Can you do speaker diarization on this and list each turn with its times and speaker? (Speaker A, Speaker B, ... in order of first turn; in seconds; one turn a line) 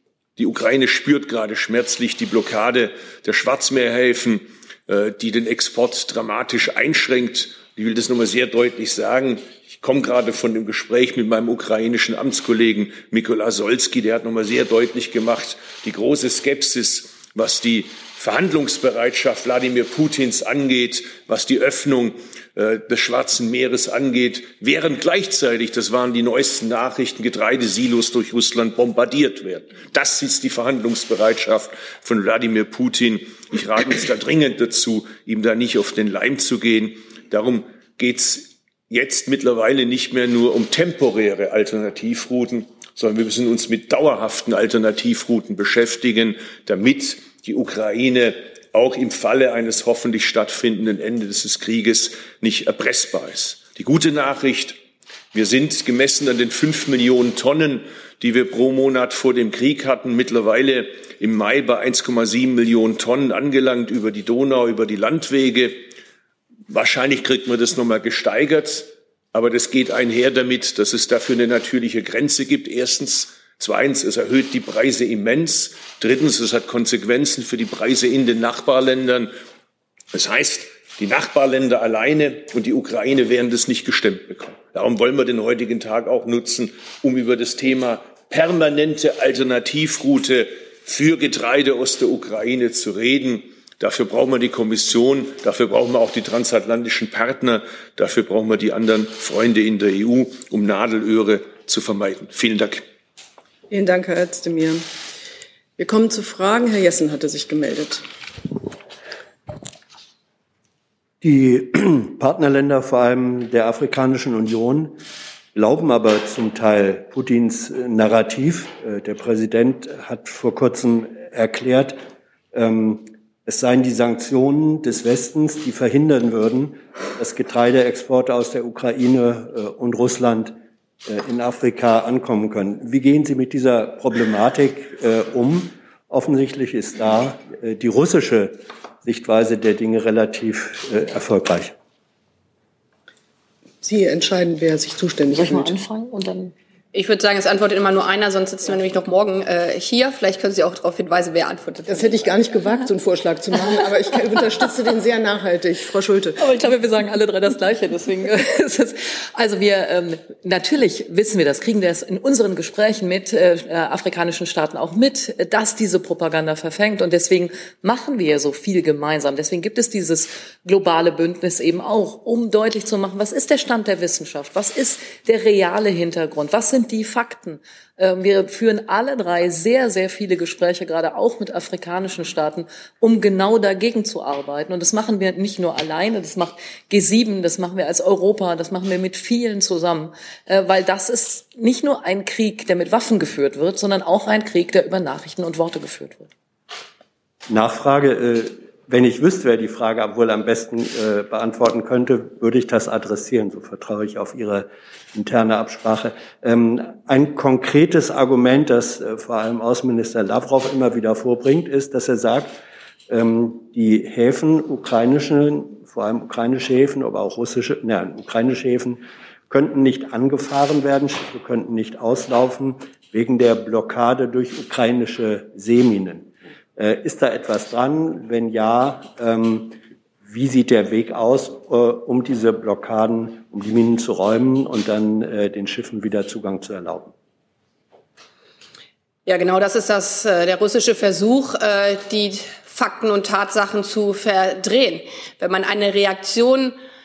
Speaker A: 0.4-54.8
Speaker A: 55.3-65.8
Speaker A: 66.7-79.3
Speaker A: 80.1-102.8
Speaker B: 103.7-104.8
Speaker B: 105.8-108.0
Speaker C: 111.2-115.0
Speaker C: 115.5-122.0
Speaker C: 122.5-141.8
Speaker B: 143.8-145.7
Speaker D: 145.3-146.5
Speaker E: 146.9-152.3
Speaker B: 151.9-156.4
Speaker D: 156.4-196.3
Speaker C: 197.5-237.1
Speaker E: 239.2-246.8